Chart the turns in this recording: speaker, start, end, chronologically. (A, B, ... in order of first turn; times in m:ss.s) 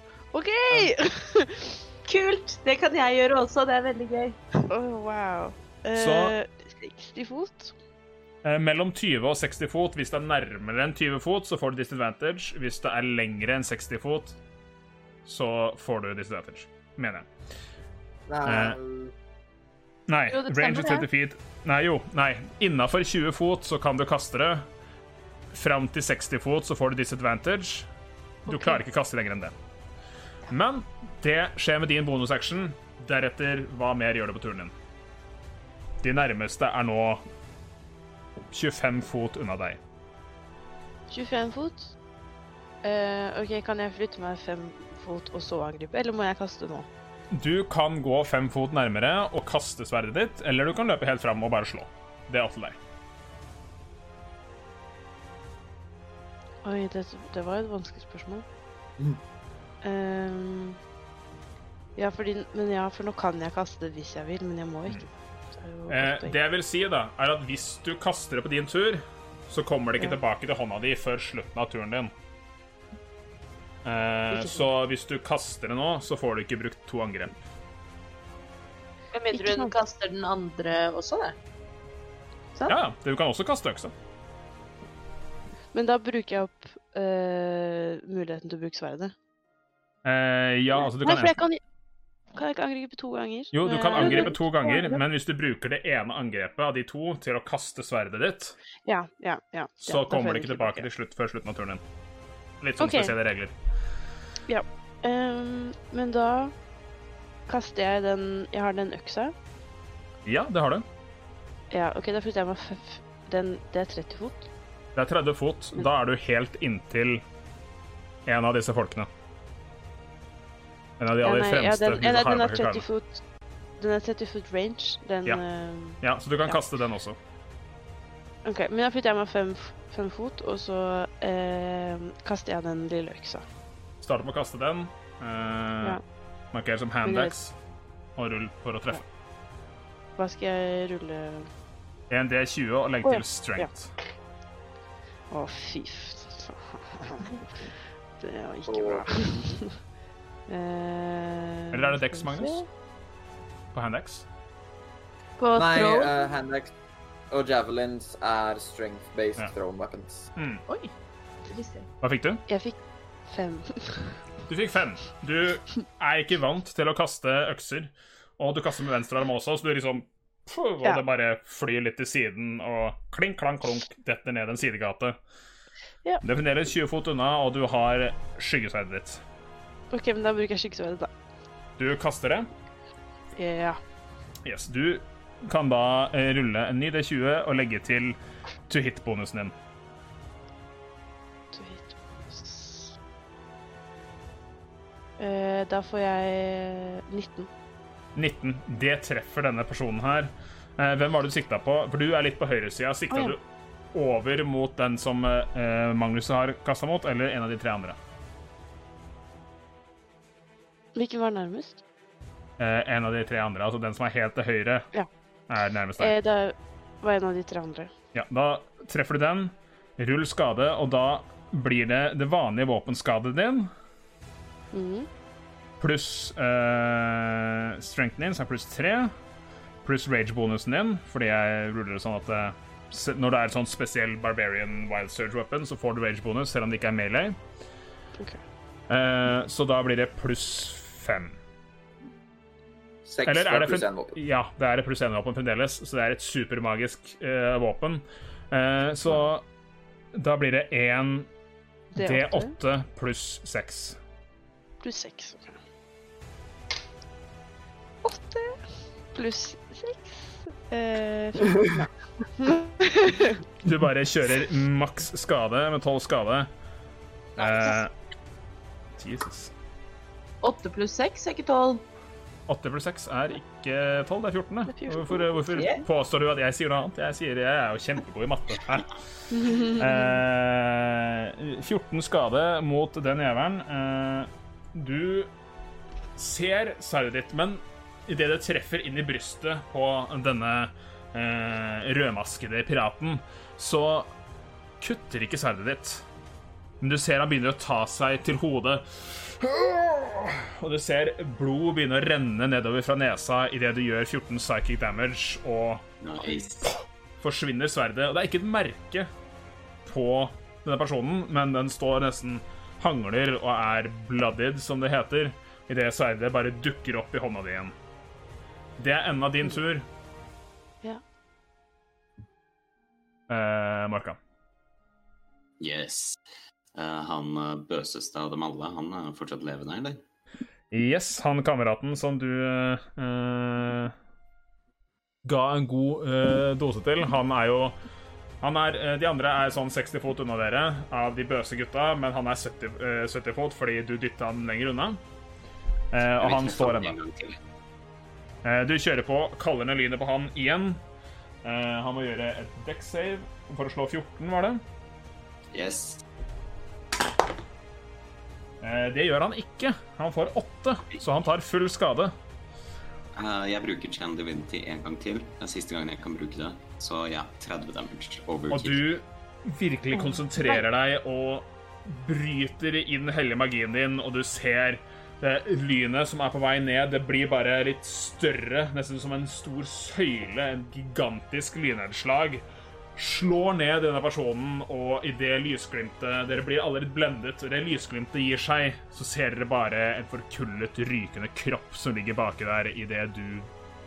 0:00.3-0:01.8 A
0:02.0-0:04.4 B
0:04.6-0:07.8 A
0:05.9-0:06.4 C
0:08.4-0:14.4 C
0:15.2-0:17.3 C
0:18.3-0:19.1 D
0:18.4-0:18.8 C
0:20.1-0:24.6 C
0:20.3-0:21.1 A
0:25.5-0:27.9 C
0:28.5-0:29.6 C
0:28.5-0:28.8 A
0:30.5-0:34.7 C
0:36.0-0:37.2 C
0:38.5-0:39.8 C
0:41.1-0:41.9 A
0:42.8-0:46.9 A
0:47.3-0:52.8 C
0:56.6-0:58.4 A
0:59.8-1:00.8 A
1:02.0-1:06.4 A
1:05.9-1:12.1 C
1:13.8-1:17.4 C
1:19.1-1:21.4 B
1:19.3-1:19.8 A
1:22.7-1:23.9 C
1:25.7-1:29.1 A
1:30.0-1:31.4 C
1:30.8-1:31.6 A
1:32.3-1:35.0 A
1:33.5-1:38.6 C
1:38.9-1:40.9 A
1:39.8-1:41.8 C
1:42.6-1:43.5 C
1:42.8-1:43.1 A
1:44.5-1:46.5 A
1:47.5-1:49.3 A
1:50.3-1:50.8 C
1:51.7-1:54.5 A
1:55.0-1:57.2 C
1:58.3-1:59.1 C
2:01.0-2:02.9 C
2:01.2-2:03.2 A
2:03.8-2:06.6 A
2:05.2-2:07.2 C
2:08.4-2:13.4 A
2:14.0-2:16.0 C
2:16.5-2:17.6 C
2:17.0-2:17.4 A
2:18.2-2:19.0 C
2:20.2-2:21.5 A
2:22.1-2:24.0 C
2:23.0-2:23.7 A
2:25.3-2:29.8 A
2:28.7-2:29.5 D
2:30.5-2:32.7 A
2:31.7-2:32.6 C
2:33.7-2:34.3 C
2:35.4-2:36.3 B
2:35.6-2:36.7 D
2:37.3-2:40.3 D
2:40.4-2:40.6 C
2:41.5-2:41.9 B
2:42.0-2:42.4 C
2:42.5-2:44.2 A
2:44.5-2:55.2 C
2:56.2-2:59.2 C
2:59.9-3:01.1 A
3:01.8-3:02.5 C
3:03.4-3:03.8 A
3:04.4-3:08.2 C
3:08.7-3:09.5 C
3:11.5-3:13.0 A
3:15.2-3:17.5 A
3:18.2-3:23.4 C
3:23.1-3:23.4 A
3:23.9-3:28.0 C
3:31.0-3:31.8 A
3:32.6-3:34.9 C
3:35.5-3:36.2 C
3:36.0-3:37.9 A
3:38.1-3:43.7 C
3:44.7-3:45.1 A
3:45.8-3:49.1 C
3:49.8-3:57.4 C
3:58.9-4:01.4 C
4:03.0-4:04.2 D
4:03.2-4:09.4 C
4:10.1-4:11.3 C
4:11.9-4:12.5 A
4:12.0-4:14.0 C
4:14.8-4:15.6 A
4:18.0-4:18.6 A
4:19.1-4:23.4 A
4:23.6-4:26.5 C
4:27.4-4:27.9 C
4:29.0-4:29.5 C
4:30.4-4:31.8 B
4:32.5-4:45.3 C
4:34.7-4:35.8 A
4:39.3-4:40.2 A
4:46.2-4:54.1 C
4:54.8-4:56.0 C
4:56.8-5:09.1 C
5:06.0-5:06.7 E
5:09.8-5:17.7 C
5:18.8-5:19.9 C
5:23.3-5:24.2 C
5:25.6-5:26.2 E
5:26.7-5:30.0 E
5:30.7-5:33.9 C
5:35.2-5:37.8 C
5:38.4-5:45.0 C
5:45.9-5:47.0 C
5:46.2-5:47.4 E
5:48.4-5:50.8 C
5:51.4-5:54.6 C
5:55.5-5:56.0 E
5:58.6-6:02.1 C
6:03.2-6:08.8 E
6:08.5-6:22.4 C
6:23.0-6:33.5 C